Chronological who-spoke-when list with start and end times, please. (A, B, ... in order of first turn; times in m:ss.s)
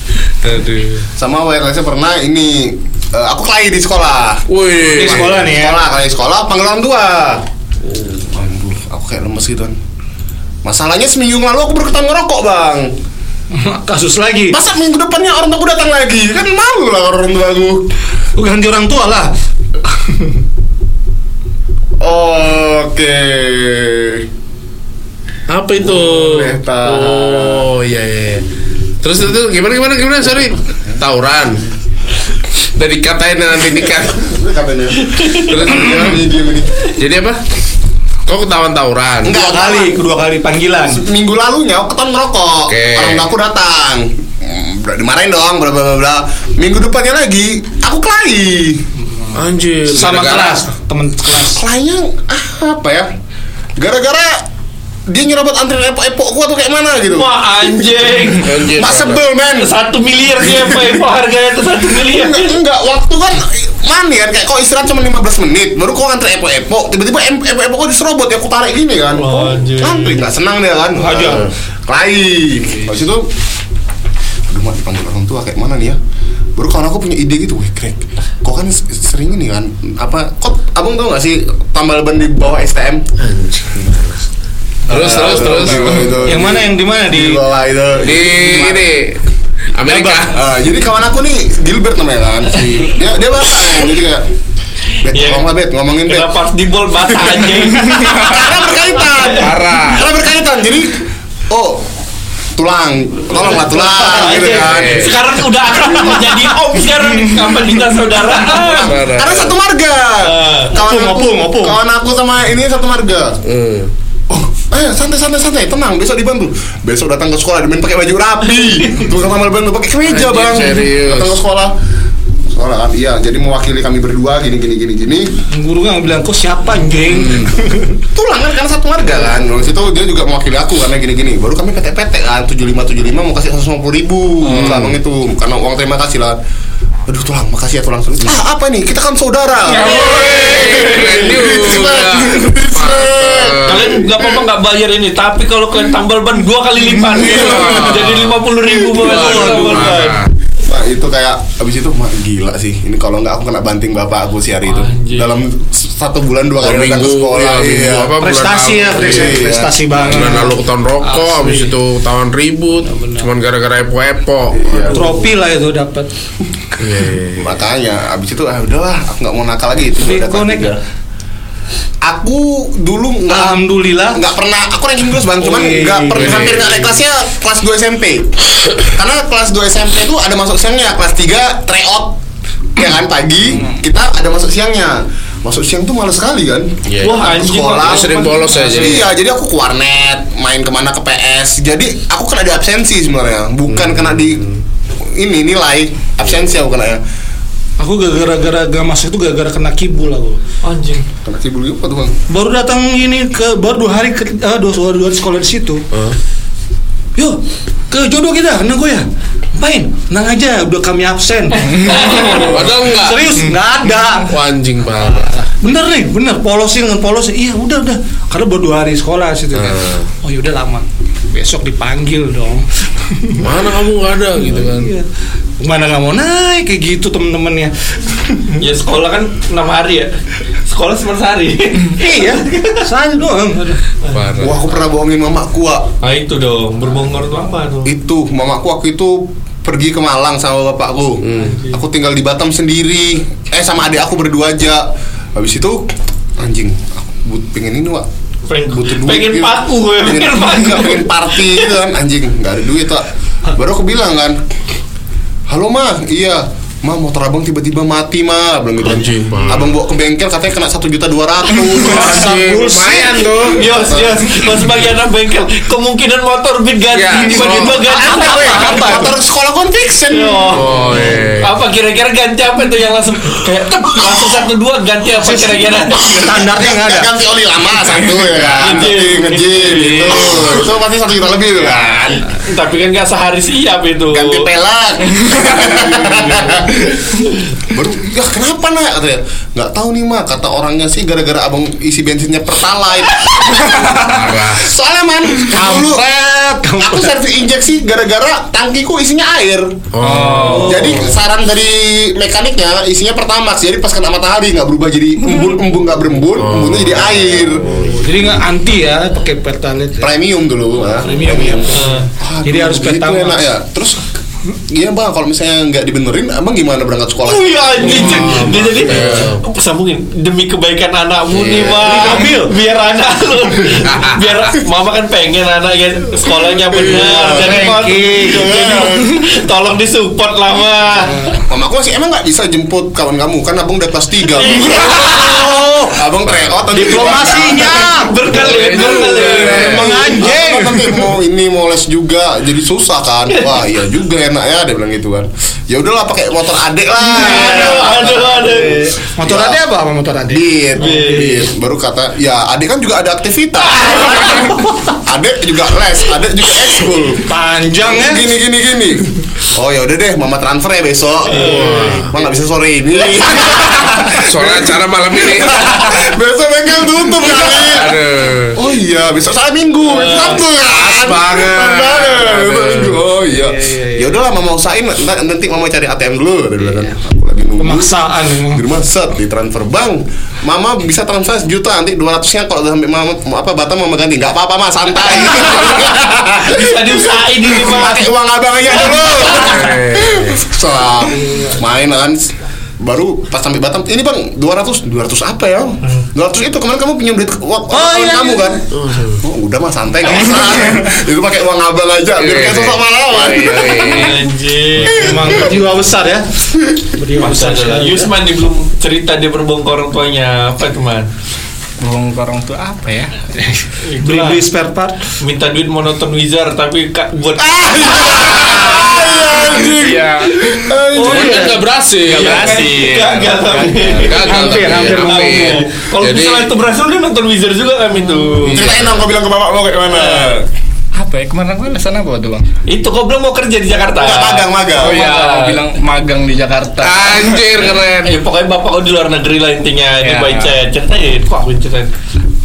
0:00.4-0:01.1 A
0:01.2-0:07.4 B
0:04.5-0:05.4 A
0:05.0-0:05.8 C
0:08.0-0:09.8 B
0:10.6-0:12.9 B
0:13.5-0:14.6 C
0:14.5-0:17.9 B
0:18.4-0:19.3 C
0:22.0-0:24.3 B
0:25.5-0:28.4 A
0:25.8-0:27.6 B
0:29.0-0:31.6 A
0:32.7-0:34.3 A
0:34.0-0:36.9 B
0:35.1-0:35.4 D
0:35.3-0:36.2 A
0:36.9-0:37.4 A
0:38.2-0:39.4 A
0:39.2-0:40.0 B
0:39.3-0:41.0 C
0:40.9-0:48.8 B
0:42.7-0:43.3 A
0:49.1-0:51.6 C
0:49.3-0:50.7 A
0:51.5-0:53.1 B
0:53.8-0:54.4 B
0:55.1-0:59.7 B
0:57.1-0:58.6 D
0:58.4-0:59.3 A
0:59.5-1:02.6 D
1:00.4-1:00.8 B
1:02.0-1:13.3 B
1:09.1-1:10.3 D
1:11.0-1:11.5 C
1:14.5-1:16.0 B
1:16.6-1:23.1 B
1:23.2-1:24.2 A
1:24.9-1:28.8 B
1:24.9-1:26.3 A
1:26.1-1:27.4 C
1:28.0-1:29.2 A
1:28.2-1:28.8 C
1:29.7-1:30.4 A
1:29.8-1:34.3 B
1:35.0-1:36.3 B
1:35.1-1:35.5 D
1:36.0-1:38.5 D
1:37.1-1:41.9 B
1:39.0-1:39.5 D
1:39.3-1:40.1 A
1:42.6-1:45.2 B
1:43.3-1:49.0 D
1:43.8-1:44.4 C
1:44.4-1:45.2 A
1:48.6-1:53.4 B
1:48.8-1:49.6 A
1:50.2-1:50.7 D
1:50.7-1:51.8 C
1:53.4-1:53.9 A
1:54.3-2:01.7 B
2:00.0-2:01.4 A
2:02.5-2:05.3 B
2:05.5-2:08.0 C
2:07.1-2:07.5 A
2:08.1-2:16.4 B
2:14.4-2:15.0 A
2:17.1-2:24.3 B
2:19.6-2:23.9 A
2:20.0-2:21.2 D
2:23.6-2:30.2 D
2:27.2-2:30.3 A
2:29.2-2:29.9 C
2:30.6-2:38.1 B
2:34.6-2:35.4 D
2:36.6-2:44.8 A
2:38.2-2:41.7 C
2:38.9-2:40.4 B
2:42.8-2:43.3 C
2:44.6-2:45.1 B
2:44.9-2:46.1 C
2:46.8-2:47.6 A
2:47.4-2:50.8 B
2:50.0-2:50.7 C
2:52.0-3:02.2 B
2:53.3-2:54.2 C
2:55.5-2:56.9 A
2:55.6-2:56.1 C
3:02.8-3:14.5 B
3:06.8-3:09.1 A
3:07.0-3:08.5 D
3:08.5-3:09.0 C
3:13.7-3:14.6 A
3:15.0-3:17.0 B
3:17.8-3:20.4 C
3:20.6-3:21.1 D
3:21.2-3:22.1 B
3:22.3-3:25.9 C
3:25.9-3:26.2 A
3:27.2-3:34.3 C
3:31.7-3:32.6 D
3:32.3-3:33.5 A
3:34.2-3:35.3 A
3:35.0-3:43.5 C
3:39.6-3:40.1 A
3:43.4-3:44.9 A
3:44.4-3:45.1 C
3:45.6-3:48.6 C
3:48.6-3:50.1 D
3:50.6-3:52.8 D
3:51.9-3:53.8 C
3:54.0-3:54.3 D
3:54.1-3:54.6 A
3:54.4-3:55.9 B
3:56.0-3:57.9 D
3:57.8-4:08.0 B
4:01.2-4:01.6 A
4:01.3-4:01.8 D
4:08.5-4:11.7 D
4:08.7-4:14.4 B
4:15.5-4:22.5 B
4:18.8-4:19.7 A
4:21.8-4:23.8 A
4:21.8-4:23.4 C
4:23.5-4:28.8 D
4:23.7-4:24.3 B
4:26.9-4:27.8 A
4:27.8-4:31.2 B
4:27.9-4:29.1 C
4:30.1-4:36.5 D
4:30.5-4:31.5 A
4:35.2-4:37.1 C
4:36.2-4:42.3 B
4:38.6-4:40.6 D
4:39.7-4:40.2 A
4:41.7-4:44.5 D
4:44.1-4:59.8 B
4:54.0-4:54.7 A
4:55.5-4:56.0 C
4:56.6-4:57.1 C
4:59.9-5:01.0 A
5:00.0-5:00.9 E
5:00.2-5:01.1 C
5:00.6-5:07.8 B
5:06.4-5:08.0 A
5:07.8-5:10.2 C
5:10.0-5:14.0 B
5:11.0-5:13.5 C
5:11.1-5:12.1 D
5:14.7-5:19.0 B
5:17.2-5:31.3 D
5:17.8-5:19.4 A
5:21.3-5:22.0 A
5:21.8-5:22.5 C
5:23.8-5:24.4 A
5:26.7-5:29.2 B
5:27.0-5:29.0 C
5:31.5-5:49.6 B
5:34.3-5:35.6 D
5:36.2-5:36.7 A
5:36.7-5:38.2 C
5:37.0-5:40.2 D
5:38.3-5:40.0 A
5:39.3-5:41.1 C
5:47.0-5:49.0 D
5:49.1-5:51.3 C
5:50.3-5:57.3 B
5:50.8-5:51.5 D
5:57.2-5:58.3 C
5:57.8-6:08.0 B
6:01.2-6:02.0 D
6:01.4-6:02.1 A
6:03.9-6:06.1 A
6:07.5-6:08.6 A
6:08.5-6:38.6 B
6:09.8-6:10.4 D
6:10.7-6:13.1 A
6:13.6-6:14.0 C
6:17.6-6:18.7 C
6:26.4-6:28.1 D
6:28.7-6:29.6 D
6:29.3-6:30.4 A
6:37.7-6:38.5 C
6:38.7-6:39.2 A
6:39.2-6:44.0 B
6:42.2-6:44.2 A
6:43.9-6:45.5 D
6:44.8-6:45.1 A
6:44.8-6:45.6 B
6:44.9-6:48.1 C
6:47.2-6:51.1 D
6:51.8-6:53.1 E
6:53.4-6:55.0 C
6:53.8-6:54.4 D
6:55.2-6:59.0 D
6:57.4-7:01.5 B
6:59.6-7:00.5 E
7:00.9-7:01.6 C
7:01.0-7:02.7 A
7:02.0-7:04.2 E
7:02.1-7:08.7 D
7:04.0-7:06.5 A
7:04.2-7:05.7 C
7:08.4-7:09.1 A
7:08.4-7:10.4 B
7:09.9-7:10.3 E
7:10.9-7:12.5 E
7:12.7-7:15.6 D
7:14.0-7:15.1 B
7:14.8-7:17.4 E
7:16.8-7:18.2 A
7:18.0-7:21.9 D
7:20.0-7:20.6 E